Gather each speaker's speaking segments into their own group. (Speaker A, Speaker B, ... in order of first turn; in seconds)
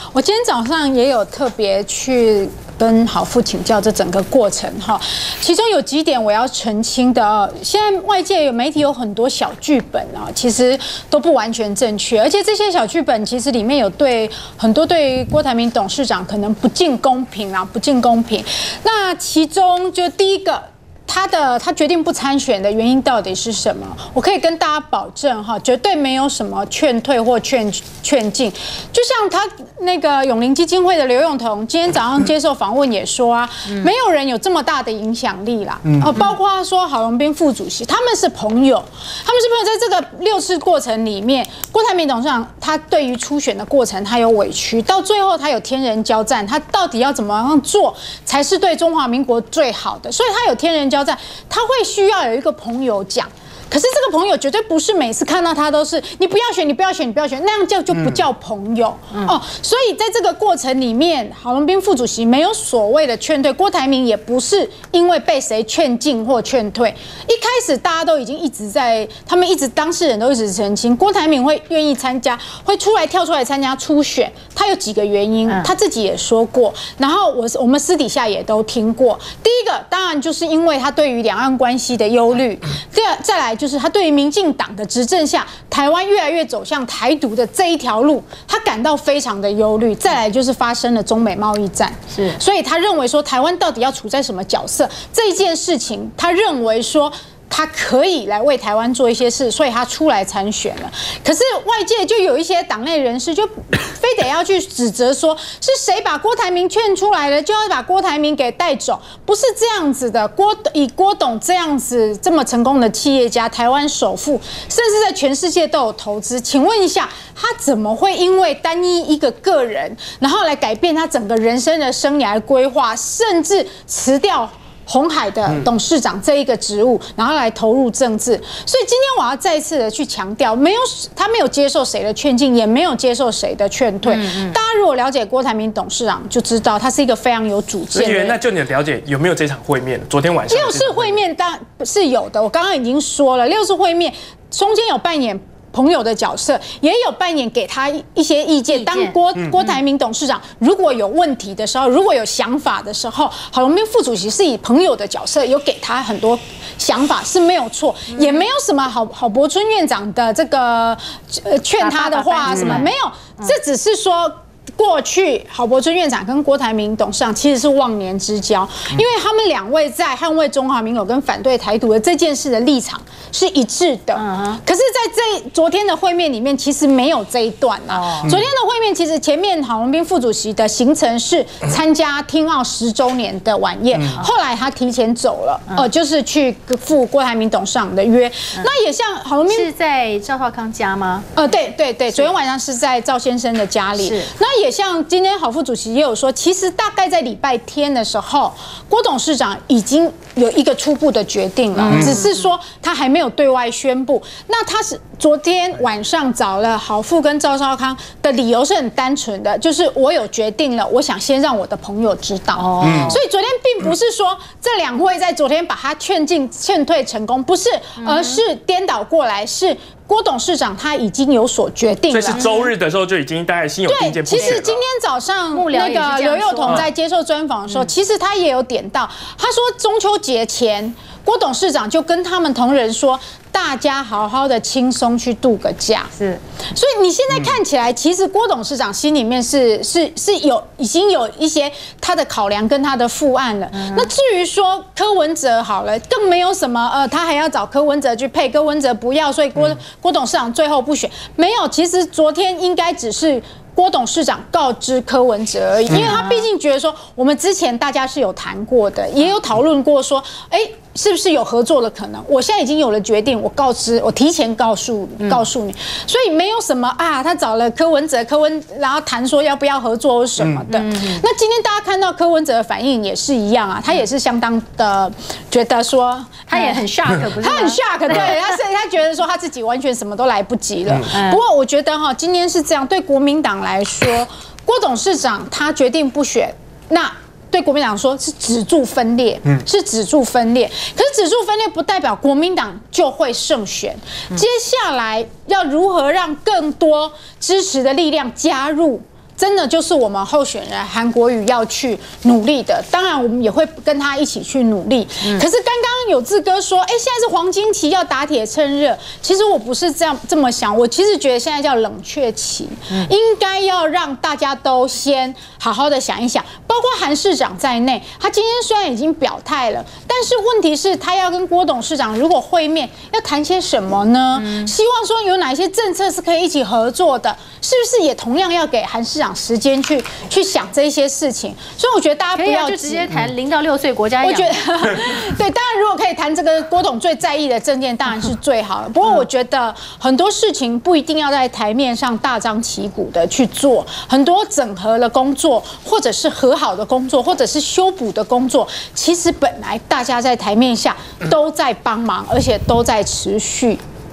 Speaker A: 0.1-138.4, 140.5-189.7, 191.4-222.5, 223.9-236.1, 236.7-333.1, 334.2-353.8
Speaker B: 35.9-36.1, 58.0-58.2, 137.9-141.2, 201.9-202.2, 212.8-213.2, 222.1-224.8
Speaker C: 92.1-92.4, 134.0-134.6, 148.7-149.8, 158.1-158.5, 161.8-163.5, 174.2-174.6, 177.9-178.4, 189.5-191.4, 194.0-194.3, 201.8-202.3, 212.6-213.2, 218.0-218.4, 222.3-222.7, 224.3-224.6, 225.5-226.9, 243.7-244.1, 256.0-256.5, 270.7-271.2, 276.5-278.4, 281.1-281.4, 324.4-324.7, 332.4-334.6